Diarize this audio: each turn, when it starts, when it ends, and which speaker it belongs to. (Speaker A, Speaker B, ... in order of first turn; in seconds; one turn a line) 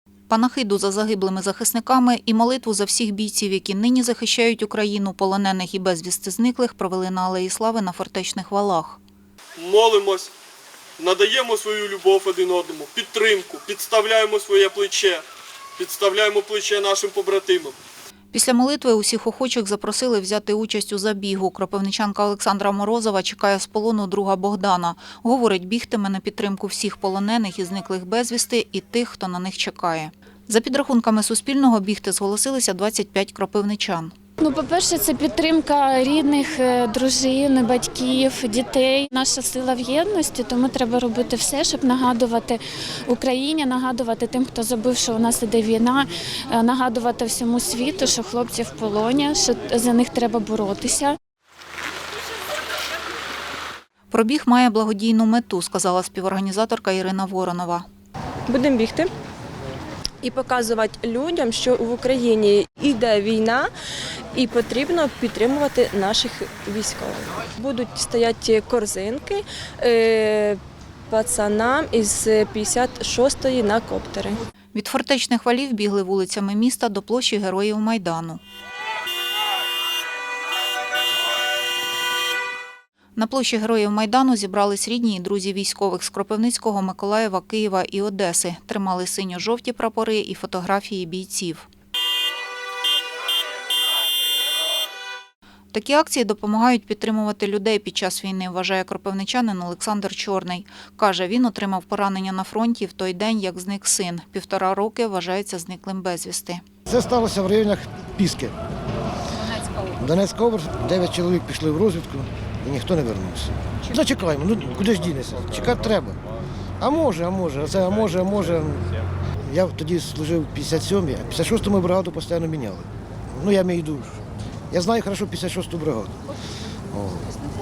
Speaker A: 0.3-9.0
Speaker B: 9.6-10.3
Speaker B: 11.0-15.2
Speaker B: 15.8-17.8
Speaker A: 18.3-34.1
Speaker C: 34.4-51.2
Speaker A: 54.1-57.9
Speaker D: 58.5-59.1
Speaker D: 60.2-63.7
Speaker D: 64.3-74.4
Speaker A: 74.7-78.4
Speaker A: 83.2-91.7
Speaker A: 95.7-106.6
Speaker E: 106.9-108.5
Speaker E: 109.8-116.2
Speaker E: 116.8-118.9
Speaker E: 119.5-124.2
Speaker E: 124.7-126.2
Speaker E: 126.9-127.3